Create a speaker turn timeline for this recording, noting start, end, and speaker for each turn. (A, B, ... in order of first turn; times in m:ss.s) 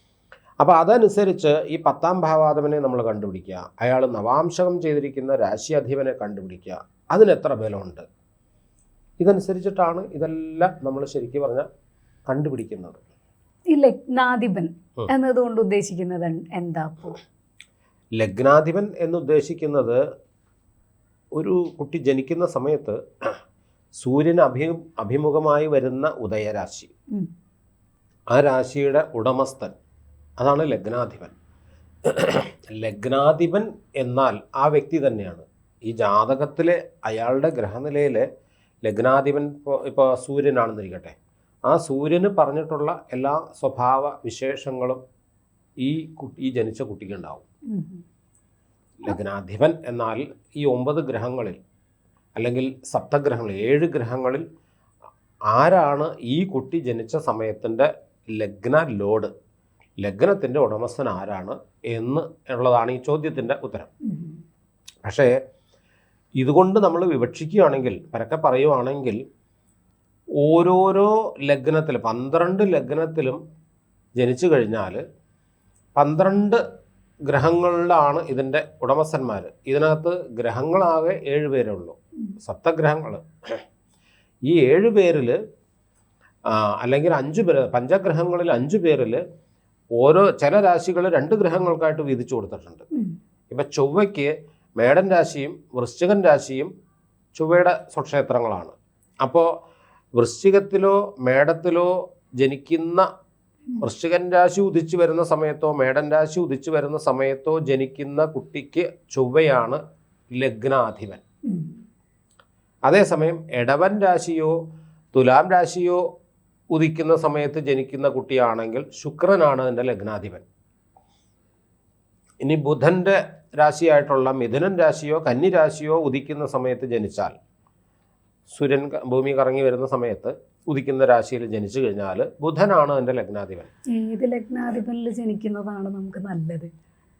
0:00.6-0:08.0 A
0:09.2-0:11.7 A
0:12.3-0:13.0 A
0:13.7-0:17.2 B
0:18.2-0:20.0 A
0:21.3-0:23.4 A
0:24.0-0:26.9 A
0:28.3-0:29.7 A
0:30.4-0:31.3 A
0:32.0-0:38.3 A
0:38.8-0:41.1 A
0:41.7-0:45.0 A
0:45.8-0:47.4 A
0:47.7-0:48.0 B
0:49.0-0:51.6 A
0:52.4-0:54.4 A
0:55.5-0:59.3 A
1:00.0-1:03.9 A
1:04.0-1:04.4 B
1:05.0-1:05.3 A
1:06.4-1:09.2 A
1:10.4-1:13.4 A
1:14.2-1:15.0 A
1:16.0-1:16.6 A
1:17.2-1:23.6 A
1:24.5-1:25.4 A
1:26.5-1:29.2 A
1:30.0-1:32.8 A
1:33.5-1:36.7 A
1:37.3-1:39.5 A
1:40.2-1:43.1 A
1:43.8-1:49.8 A
1:50.3-1:51.2 A
1:51.5-1:51.8 B
1:52.8-1:54.6 A
1:55.1-1:56.0 A
1:56.7-2:00.4 A
2:02.4-2:07.3 A
2:08.5-2:13.7 A
2:13.9-2:16.7 B